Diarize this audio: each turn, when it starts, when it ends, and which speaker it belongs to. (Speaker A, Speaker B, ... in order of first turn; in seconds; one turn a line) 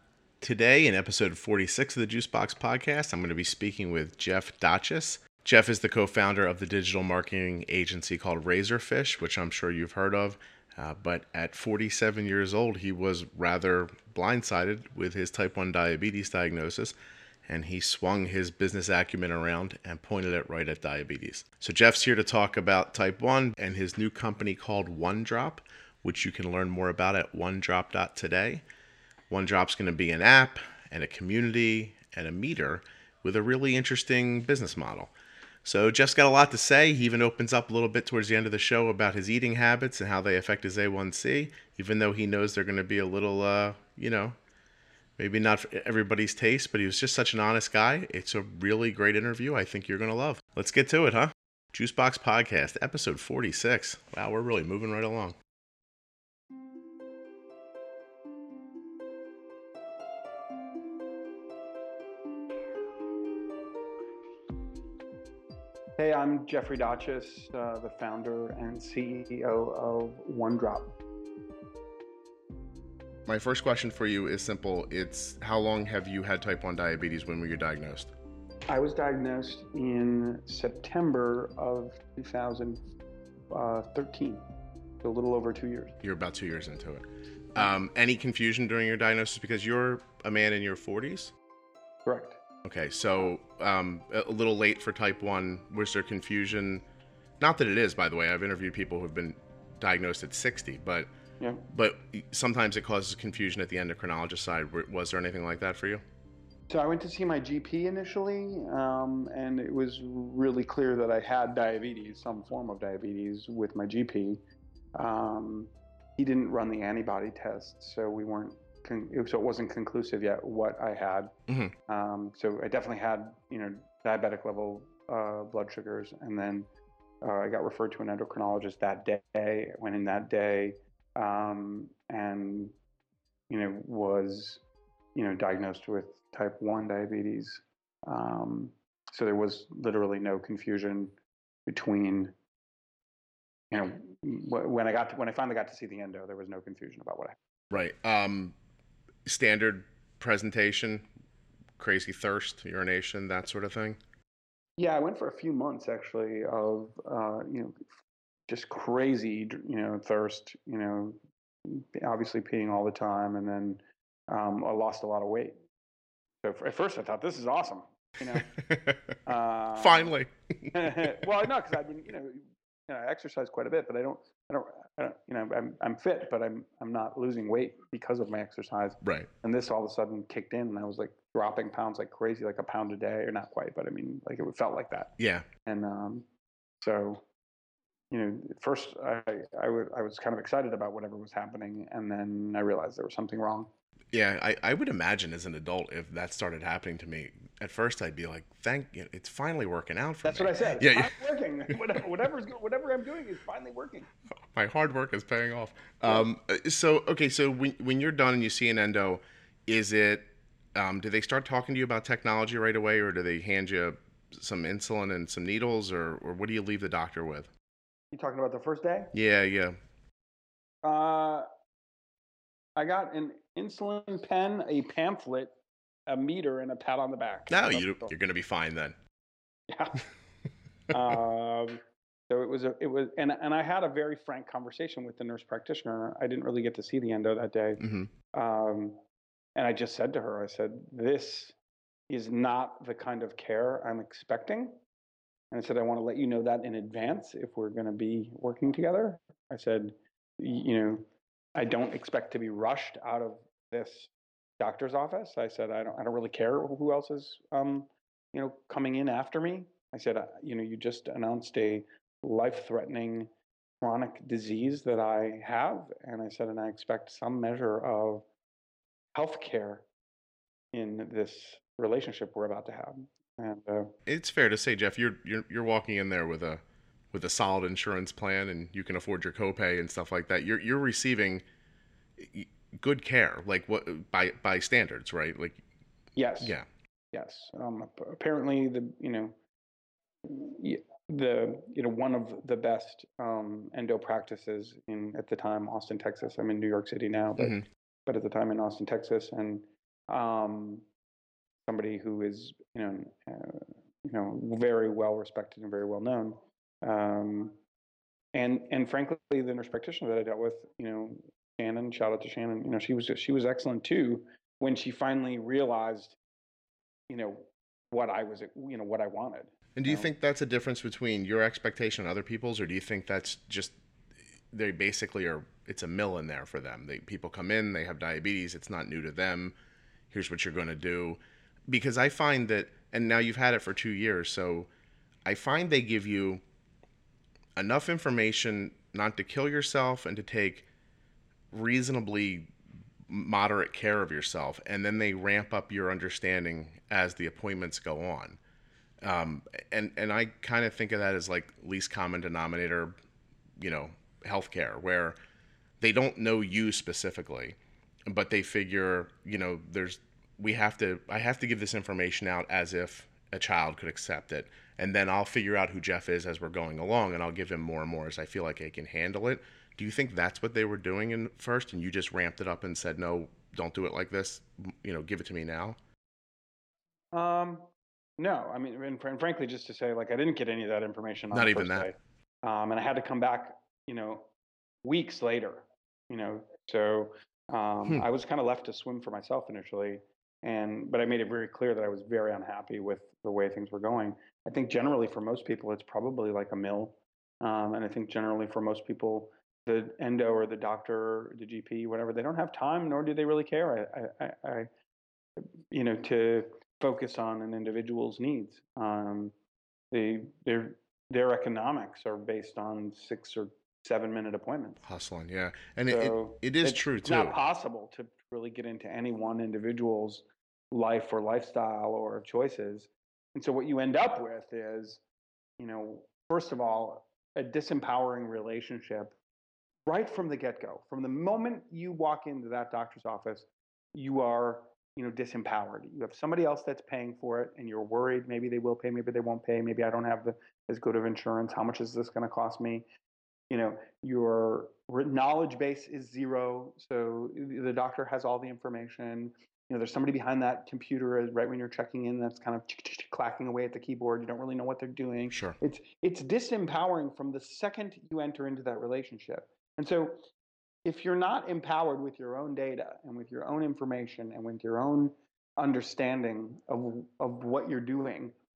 Speaker A: 0.4-16.9
Speaker A: 17.5-28.6
Speaker A: 29.3-35.1
Speaker A: 35.6-44.3
Speaker A: 45.2-55.4
Speaker B: 66.0-70.9
Speaker A: 73.2-78.1
Speaker B: 78.7-82.8
Speaker B: 83.5-84.4
Speaker B: 85.0-86.0
Speaker A: 86.0-91.3
Speaker B: 92.0-92.4
Speaker A: 92.6-96.8
Speaker A: 97.4-101.1
Speaker A: 101.7-106.0
Speaker B: 106.7-114.4
Speaker B: 114.9-121.3
Speaker A: 121.5-121.7
Speaker B: 121.9-126.7
Speaker B: 127.2-132.7
Speaker B: 133.5-134.6
Speaker B: 135.1-141.1
Speaker B: 141.7-142.3
Speaker B: 143.7-147.4
Speaker A: 147.7-148.5
Speaker A: 149.2-151.1
Speaker A: 151.8-154.0
Speaker B: 154.8-157.9
Speaker B: 158.5-165.5
Speaker B: 166.4-168.6
Speaker A: 168.4-169.0
Speaker B: 169.2-170.1
Speaker A: 169.8-170.7
Speaker B: 170.7-185.1
Speaker A: 179.0-179.3
Speaker A: 185.2-185.4
Speaker B: 185.7-186.2
Speaker B: 186.8-187.2
Speaker B: 188.1-193.7
Speaker A: 194.1-201.2
Speaker B: 200.2-204.1
Speaker A: 204.5-217.5
Speaker B: 218.1-219.1
Speaker A: 219.1-219.8
Speaker B: 220.8-221.5
Speaker B: 222.8-225.5
Speaker B: 226.1-228.1
Speaker A: 227.5-228.9
Speaker B: 229.7-230.1
Speaker B: 230.9-237.8
Speaker A: 237.8-238.1
Speaker B: 238.3-239.0
Speaker B: 239.5-241.5
Speaker B: 242.1-244.8
Speaker B: 245.5-268.2
Speaker B: 269.1-269.9
Speaker B: 270.7-273.9
Speaker A: 274.1-276.6
Speaker A: 277.1-281.4
Speaker A: 282.2-285.6
Speaker B: 286.1-286.5
Speaker A: 286.4-286.6
Speaker B: 287.1-289.3
Speaker B: 290.2-300.9
Speaker B: 301.6-307.6
Speaker B: 308.3-316.2
Speaker B: 317.1-320.1
Speaker A: 319.8-323.7
Speaker A: 324.5-329.5
Speaker A: 330.1-334.7
Speaker A: 335.2-336.4
Speaker A: 337.6-340.7
Speaker A: 341.5-342.5
Speaker A: 343.1-348.4
Speaker A: 349.0-352.9
Speaker A: 353.6-355.1
Speaker A: 355.8-357.6
Speaker A: 358.1-375.8
Speaker B: 377.1-384.3
Speaker A: 381.3-381.9
Speaker B: 384.8-404.7
Speaker B: 405.4-409.3
Speaker B: 409.9-414.8
Speaker A: 414.8-417.4
Speaker B: 415.9-425.0
Speaker B: 425.6-429.1
Speaker B: 429.9-442.8
Speaker B: 443.5-460.2
Speaker A: 455.3-455.6
Speaker B: 460.8-468.3